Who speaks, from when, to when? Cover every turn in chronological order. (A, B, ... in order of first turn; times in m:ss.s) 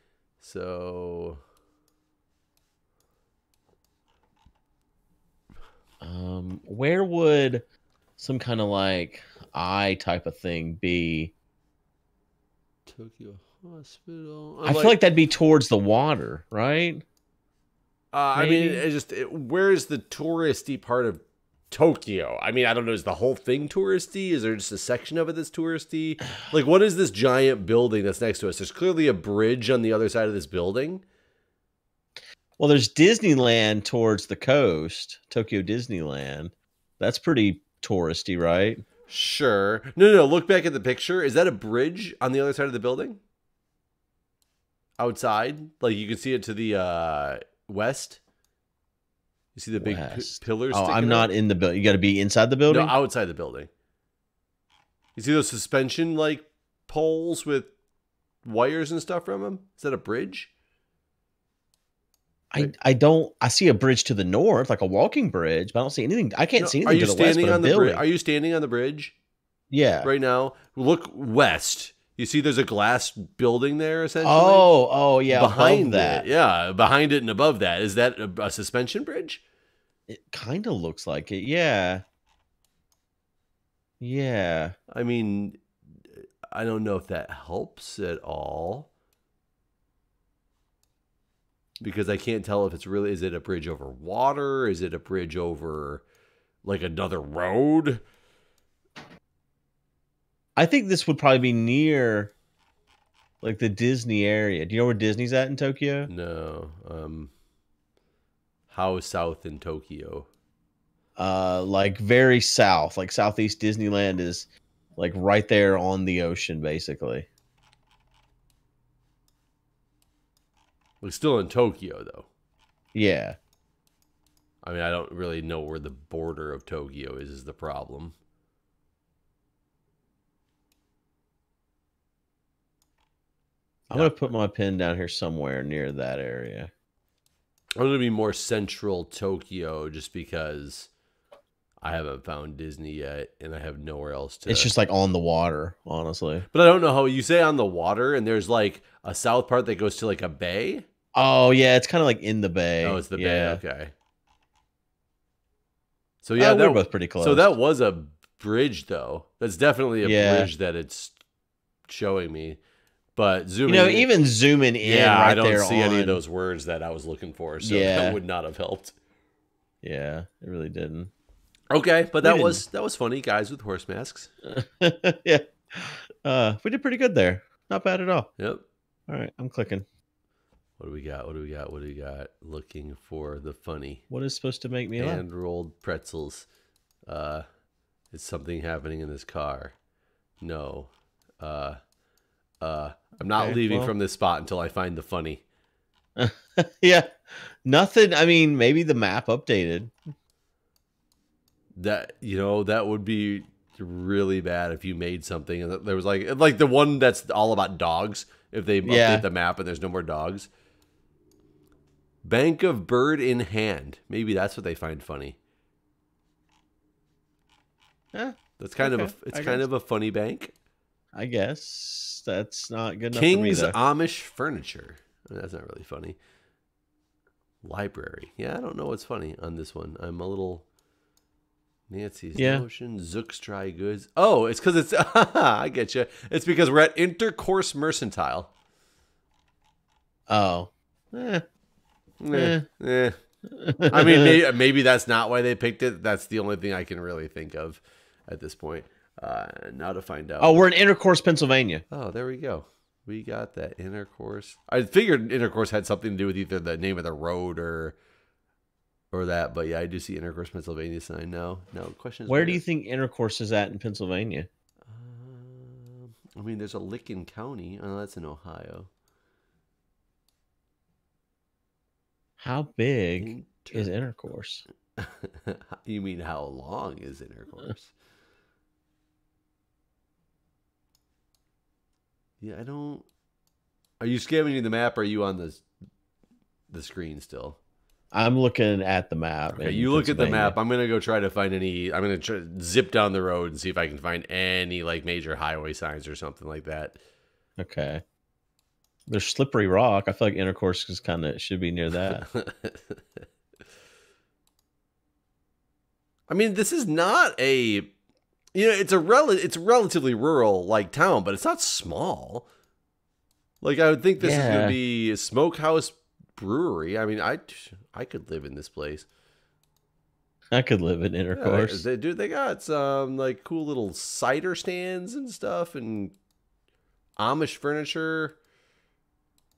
0:00.4-0:01.4 A
0:06.0-0:07.6 B
0:08.2-0:11.3 B
0:12.8-0:15.0 A
0:14.6-0:17.0 B
0:18.1-0:31.0 A
0:18.4-0:18.8 B
0:32.6-0:38.8 B
0:39.1-0:43.2 A
0:45.0-0:48.2 A
0:49.5-0:51.3 A
0:49.8-0:52.9 B
0:52.7-0:53.7 A
0:55.2-0:57.7 A
0:58.4-1:00.5 A
1:02.5-1:08.0 B
1:06.6-1:09.1 A
1:09.7-1:10.1 B
1:10.0-1:14.7 A
1:14.2-1:16.3 B
1:15.3-1:19.4 A
1:20.1-1:22.0 B
1:24.0-1:24.8 B
1:24.9-1:28.9 A
1:31.8-1:36.0 A
1:36.6-1:38.0 A
1:40.6-1:42.3 B
1:43.4-1:46.1 B
1:46.1-1:47.3 A
1:48.7-1:50.3 A
1:51.2-1:57.3 B
2:01.0-2:02.3 A
2:02.9-2:03.4 B
2:04.6-2:08.2 A
2:13.9-2:16.7 B
2:13.9-2:14.2 A
2:17.8-2:20.9 A
2:21.8-2:24.7 A
2:24.5-2:26.4 B
2:26.5-2:30.8 A
2:31.1-2:33.6 B
2:32.8-2:33.9 A
2:36.2-2:41.1 A
2:36.4-2:37.5 B
2:40.0-2:40.5 B
2:41.9-2:42.6 A
2:43.2-2:44.1 A
2:43.6-2:46.2 B
2:44.8-2:49.0 A
2:47.6-2:48.2 B
2:49.8-2:51.1 B
2:51.7-2:54.3 A
2:52.2-2:52.6 B
2:54.4-2:58.3 B
2:58.4-2:58.6 A
2:59.1-2:59.8 B
3:00.8-3:04.0 A
3:04.1-3:05.2 B
3:05.0-3:06.5 A
3:07.1-3:07.4 A
3:08.1-3:09.8 A
3:10.4-3:11.8 A
3:12.6-3:15.4 A
3:13.4-3:13.9 B
3:16.2-3:19.9 B
3:21.7-3:30.5 A
3:28.8-3:29.2 B
3:32.2-3:35.4 A
3:38.1-3:39.6 B
3:38.6-3:40.5 A
3:41.1-3:43.8 B
3:43.1-3:46.2 A
3:47.6-3:50.6 A
3:51.9-3:58.5 A
3:52.4-3:52.6 B
4:00.3-4:01.4 B
4:02.2-4:03.2 A
4:02.3-4:02.6 B
4:03.5-4:04.4 B
4:03.9-4:10.6 A
4:10.4-4:11.8 B
4:11.9-4:18.0 A
4:19.1-4:22.6 A
4:22.3-4:24.5 B
4:24.8-4:28.9 A
4:32.4-4:34.6 B
4:33.2-4:33.9 A
4:35.0-4:37.9 A
4:42.4-4:43.0 A
4:44.0-4:45.6 A
4:46.7-4:47.6 A
4:48.1-4:50.6 B
4:49.5-4:57.0 A
4:57.6-4:58.0 B
4:59.1-5:02.2 B
5:02.0-5:03.2 A
5:06.3-5:07.9 A
5:08.5-5:12.5 A
5:13.6-5:19.1 A
5:14.2-5:14.8 B
5:20.5-5:21.8 B
5:21.3-5:26.2 A
5:27.2-5:28.4 A